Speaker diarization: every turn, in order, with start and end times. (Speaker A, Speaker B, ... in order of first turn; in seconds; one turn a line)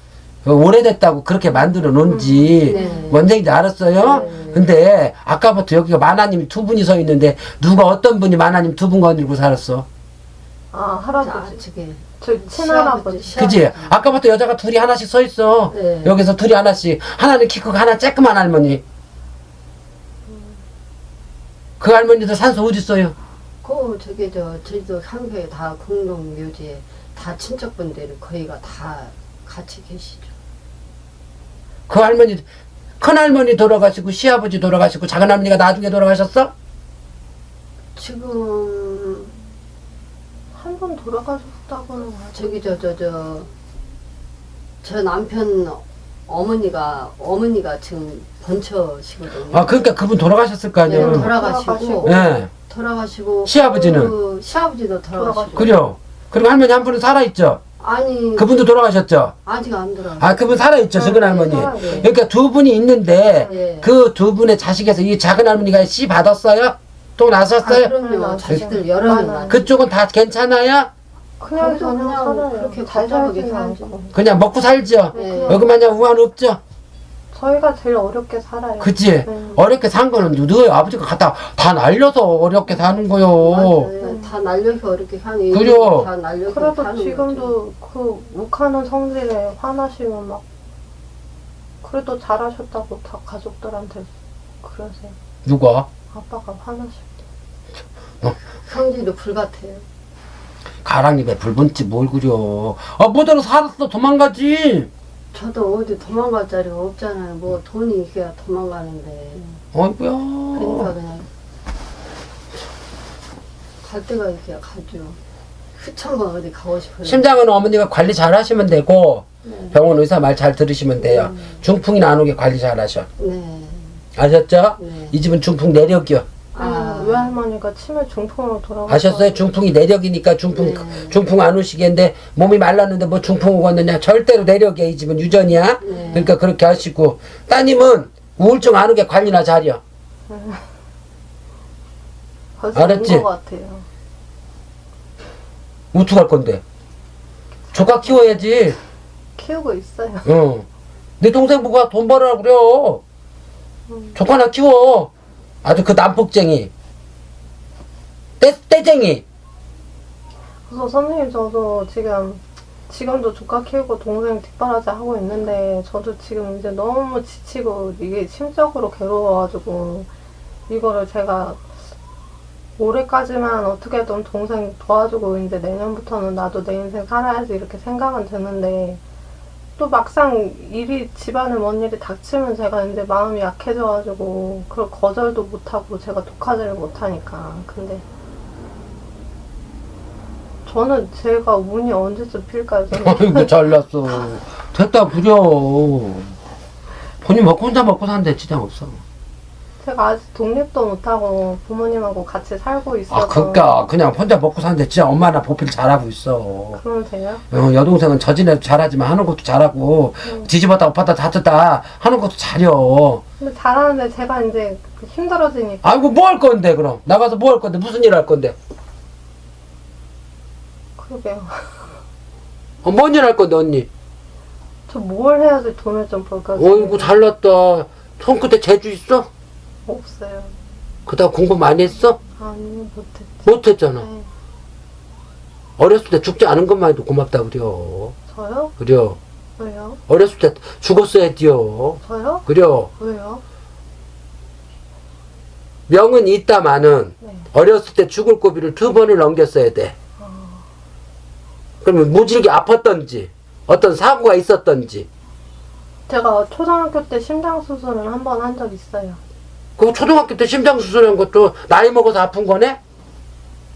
Speaker A: 0.4-9.9
Speaker B: 2.0-3.1
Speaker C: 2.7-3.3
Speaker C: 4.0-4.7
Speaker B: 4.1-4.5
Speaker B: 10.7-11.6
Speaker C: 11.1-14.1
Speaker B: 12.2-13.5
Speaker A: 13.4-18.8
Speaker C: 15.7-16.2
Speaker A: 21.8-23.1
Speaker C: 23.6-30.3
Speaker A: 31.9-32.5
Speaker A: 33.0-36.5
Speaker C: 38.0-39.3
Speaker B: 40.5-42.8
Speaker C: 42.3-43.5
Speaker C: 44.8-50.0
Speaker A: 49.5-51.3
Speaker C: 50.9-55.7
Speaker B: 50.9-52.5
Speaker A: 52.0-52.5
Speaker A: 53.5-54.1
Speaker B: 55.2-55.8
Speaker A: 55.6-57.6
Speaker C: 57.8-58.6
Speaker A: 58.4-59.4
Speaker C: 59.5-62.1
Speaker A: 60.2-67.9
Speaker B: 61.0-62.1
Speaker C: 63.5-63.9
Speaker C: 67.6-69.7
Speaker B: 67.9-69.7
Speaker A: 69.5-70.9
Speaker B: 71.4-74.1
Speaker C: 71.5-74.0
Speaker A: 74.1-76.6
Speaker B: 75.1-75.7
Speaker C: 75.1-75.7
Speaker B: 77.3-79.6
Speaker A: 78.8-83.9
Speaker C: 83.3-87.6
Speaker B: 84.0-84.3
Speaker A: 85.5-86.1
Speaker B: 86.5-90.4
Speaker B: 91.8-95.2
Speaker A: 95.5-95.9
Speaker B: 96.1-97.1
Speaker C: 98.5-99.8
Speaker A: 100.8-104.9
Speaker C: 105.3-109.6
Speaker A: 109.7-110.9
Speaker C: 110.5-111.3
Speaker C: 113.8-115.2
Speaker C: 115.8-117.3
Speaker A: 117.0-123.1
Speaker C: 119.4-119.8
Speaker C: 121.0-121.6
Speaker C: 123.2-124.0
Speaker A: 124.2-126.3
Speaker C: 124.8-125.2
Speaker C: 126.5-127.3
Speaker B: 126.6-129.4
Speaker A: 128.9-139.8
Speaker C: 130.5-131.2
Speaker C: 135.8-136.3
Speaker B: 135.9-136.3
Speaker B: 140.3-140.6
Speaker B: 142.6-143.9
Speaker A: 142.8-143.3
Speaker A: 145.9-146.6
Speaker B: 147.7-148.5
Speaker A: 147.7-148.8
Speaker B: 149.4-150.3
Speaker A: 150.2-150.7
Speaker A: 151.2-153.0
Speaker B: 153.9-154.2
Speaker A: 154.2-155.1
Speaker A: 155.6-156.7
Speaker A: 158.4-159.2
Speaker B: 160.7-170.1
Speaker B: 170.7-171.7
Speaker B: 172.8-179.0
Speaker B: 179.8-188.0
Speaker B: 190.7-193.5
Speaker A: 192.9-196.3
Speaker A: 197.2-199.0
Speaker B: 199.8-203.8
Speaker A: 203.1-206.8
Speaker B: 206.8-207.4
Speaker A: 207.5-213.2
Speaker B: 213.4-216.0
Speaker A: 215.8-218.6
Speaker B: 221.0-222.0
Speaker A: 222.8-223.9
Speaker B: 224.9-227.1
Speaker A: 226.6-229.3
Speaker B: 229.9-230.6
Speaker A: 231.1-232.2
Speaker B: 232.4-234.3
Speaker A: 233.5-234.1
Speaker A: 235.8-238.2
Speaker B: 238.3-238.8
Speaker A: 238.8-239.2
Speaker B: 239.6-240.0
Speaker A: 240.1-242.9
Speaker B: 242.1-242.5
Speaker B: 243.0-243.4
Speaker A: 245.9-249.9
Speaker B: 250.2-250.6
Speaker A: 251.8-255.1
Speaker B: 256.1-259.2
Speaker A: 259.8-262.8